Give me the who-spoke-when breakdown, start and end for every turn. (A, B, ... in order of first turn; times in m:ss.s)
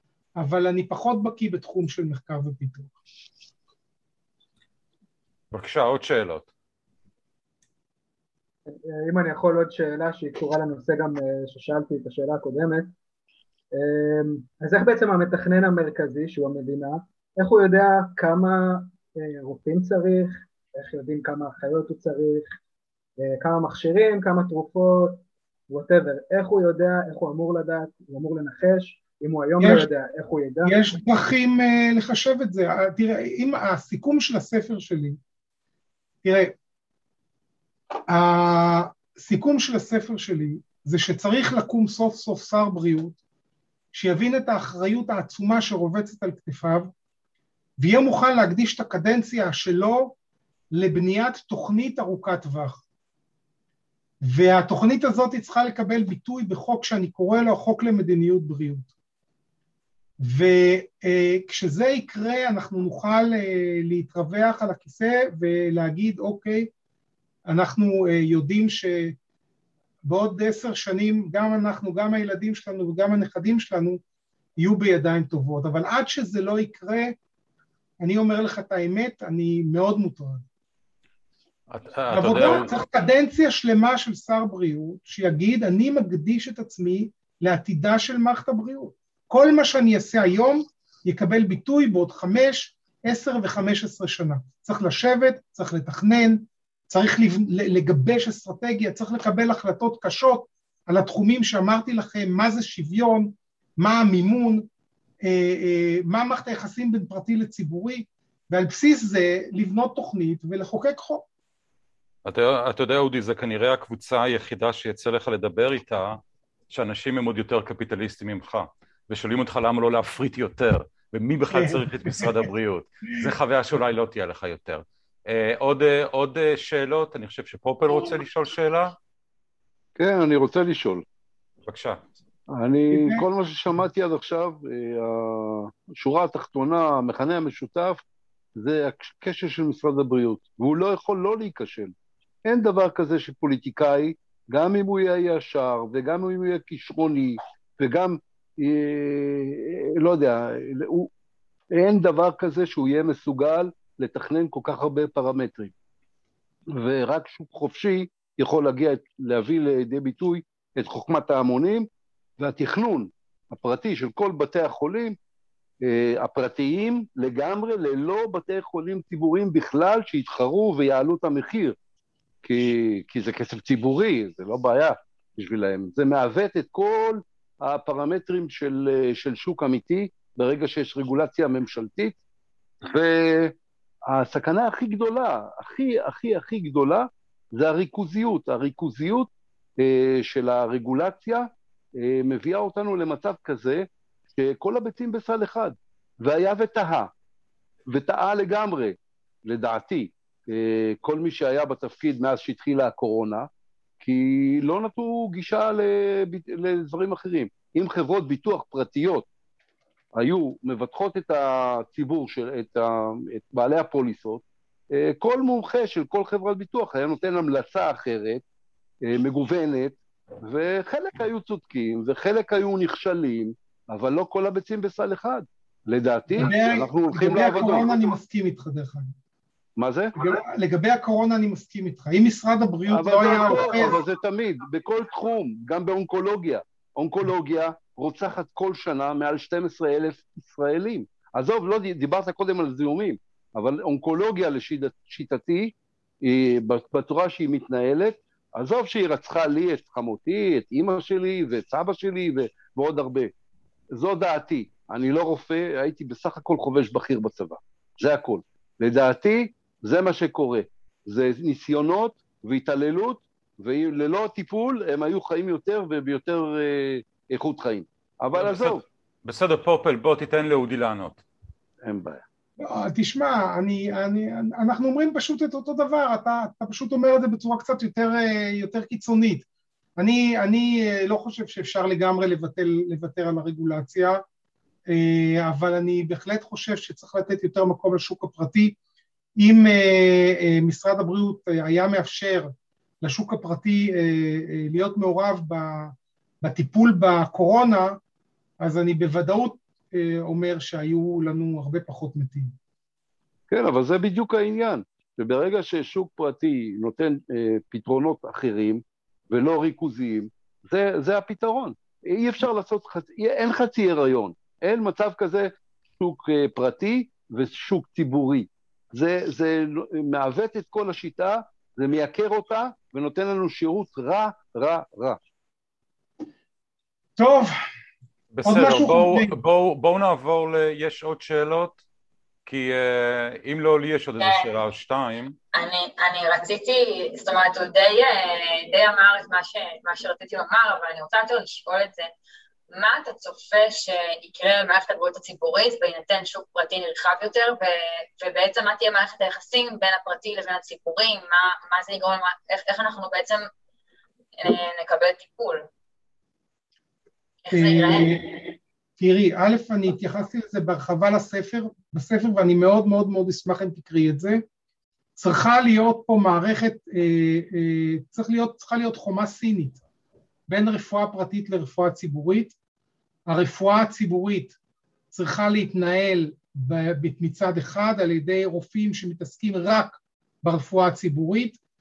0:00.4-0:02.9 A
0:05.5-0:06.5 B
0:08.7-0:12.9 C
0:13.7-0:22.6 C
0:23.2-0:30.9 C
0:29.6-0:29.9 A
0:30.6-0:35.2 A
0:36.2-0:36.5 A
0:38.1-0:43.2 A
0:43.9-0:46.9 A
0:47.8-0:50.2 A
0:50.7-0:52.8 A
0:54.3-0:58.9 A
1:00.2-1:06.7 A
1:07.5-1:09.2 A
1:10.0-1:14.0 A
1:14.6-1:17.2 A
1:18.0-1:20.4 A
1:21.7-1:22.8 B
1:22.1-1:44.7 A
1:45.2-1:51.3 A
1:52.2-2:09.0 B
2:01.5-2:02.5 A
2:10.0-2:11.0 D
2:11.7-2:12.0 B
2:12.5-2:18.0 D
2:12.9-2:13.2 A
2:18.6-2:21.9 D
2:22.4-2:31.1 D
2:31.7-2:35.7 D
2:36.7-2:41.9 D
2:42.4-2:45.2 D
2:45.8-2:51.8 D
2:52.4-3:02.2 D
3:02.9-3:03.6 D
3:04.1-3:17.1 D
3:17.9-3:23.5 D
3:24.0-3:29.3 D
3:30.2-3:38.4 D
3:39.0-3:48.0 D
3:46.4-3:49.1 A
3:49.8-3:50.2 D
3:50.2-3:54.0 A
3:52.9-4:05.7 D
4:06.2-4:13.3 D
4:13.9-4:28.8 D
4:28.4-4:31.2 B
4:31.8-4:32.2 D
4:32.6-4:39.5 A
4:40.0-4:44.2 A
4:44.9-4:48.8 A
4:49.4-4:58.0 A
4:58.6-5:02.5 A
5:03.5-5:25.2 D
5:27.2-5:27.5 A
5:28.3-5:31.8 B
5:28.4-5:29.3 A
5:32.5-5:35.4 B
5:34.2-5:34.5 E
5:35.5-5:42.1 E
5:42.7-5:53.5 E
5:54.4-5:55.7 E
5:57.4-5:58.2 E
5:57.5-5:58.4 A
5:59.0-6:04.4 A
6:05.2-6:09.8 A
6:10.5-6:12.6 A
6:13.3-6:14.6 A
6:15.1-6:21.6 A